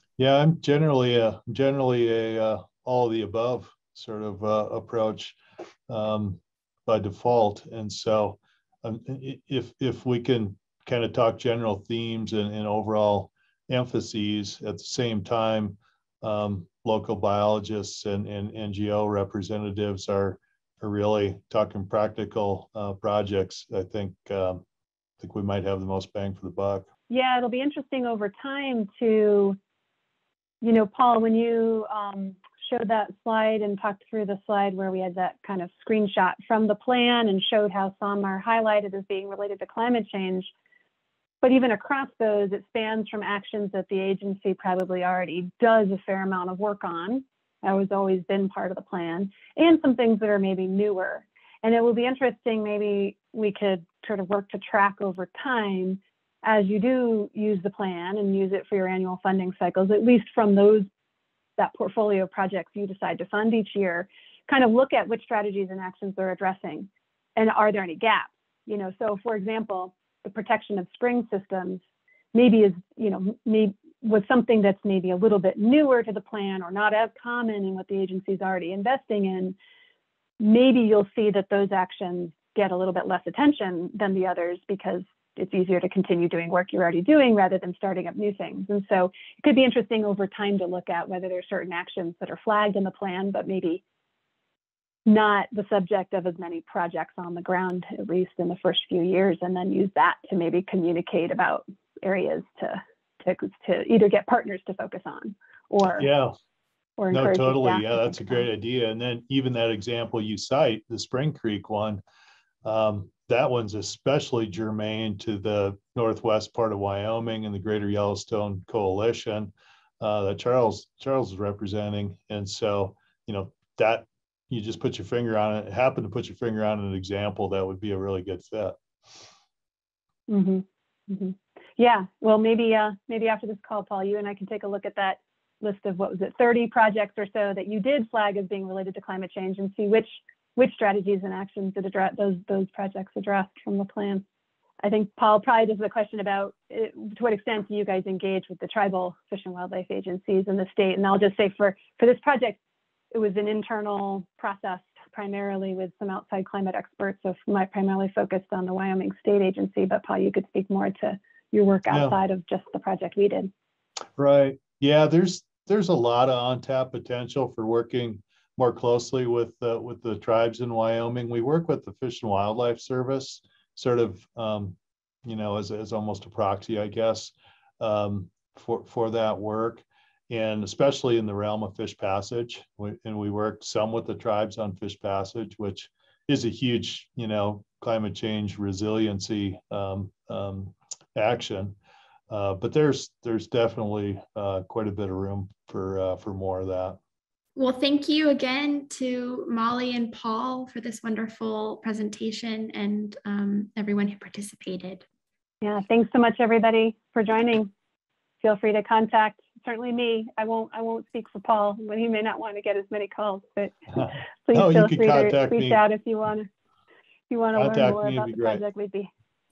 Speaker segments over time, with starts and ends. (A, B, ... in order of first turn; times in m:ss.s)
0:00.2-0:05.4 A
0:05.9-0:24.6 A
0:25.2-0:26.9 A
0:27.1-0:29.6 B
0:30.6-0:40.5 B
0:41.4-1:00.9 B
1:01.6-1:11.8 B
1:12.3-1:19.6 B
1:20.4-1:33.8 B
1:35.0-1:46.1 B
1:46.0-1:46.3 A
1:47.0-1:48.4 B
1:47.1-1:52.0 A
1:52.6-2:09.2 A
2:10.3-2:24.2 B
2:24.8-2:32.6 B
2:33.1-2:43.5 B
2:41.9-2:42.2 A
2:44.2-3:11.8 A
3:12.3-3:17.0 A
3:17.6-3:25.0 C
3:25.6-3:27.7 B
3:28.4-3:36.5 B
3:34.5-3:35.8 A
3:37.3-3:39.1 B
3:37.6-3:38.6 A